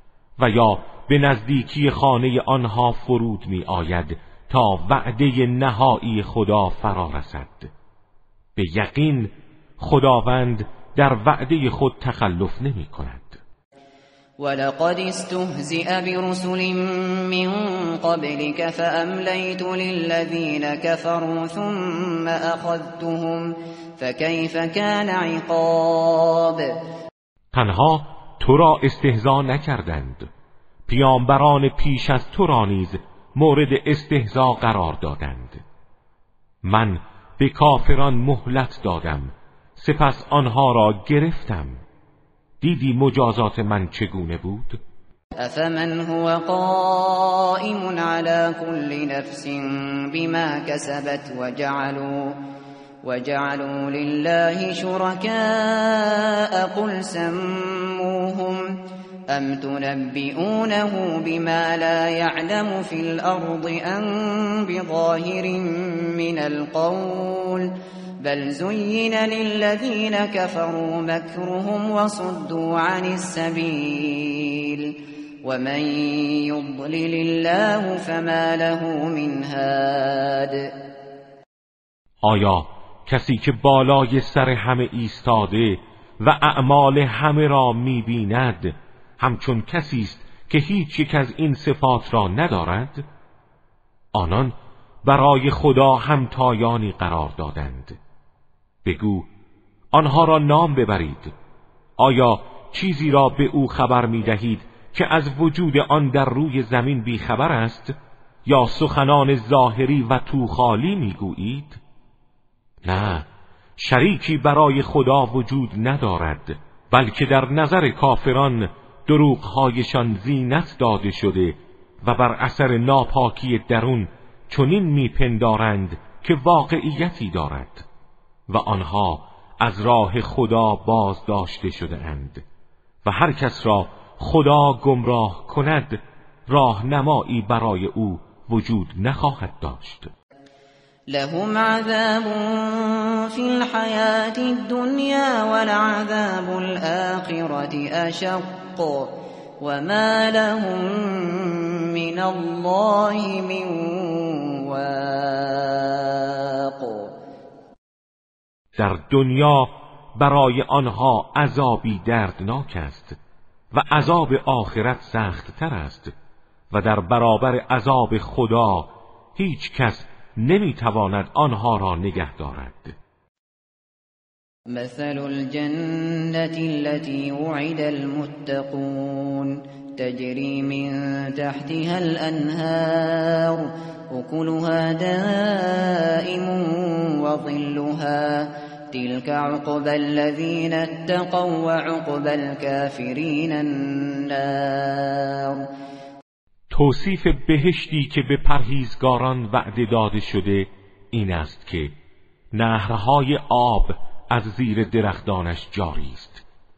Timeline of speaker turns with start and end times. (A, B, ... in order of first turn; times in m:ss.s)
0:00.4-0:07.7 A
0:08.6-0:13.4 A
0:14.4-0:26.8 B
0:27.5-0:30.3 A
0:30.9-0:35.6 A
0:36.6-0:41.8 A
0:42.6-0:44.8 A
0:45.4-0:52.4 B
0:53.0-1:20.7 B
1:22.2-1:33.0 A
1:34.1-1:38.0 A
1:38.8-1:39.3 A
1:39.9-1:41.3 A
1:42.0-1:51.8 A
1:52.8-2:07.8 A
2:08.5-2:12.4 A
2:13.0-2:20.1 A
2:21.1-2:37.1 B
2:38.8-2:43.2 A
2:43.7-2:46.1 A
2:46.7-2:53.0 A
2:54.7-3:15.7 B
3:16.7-3:22.0 A
3:22.5-3:26.4 A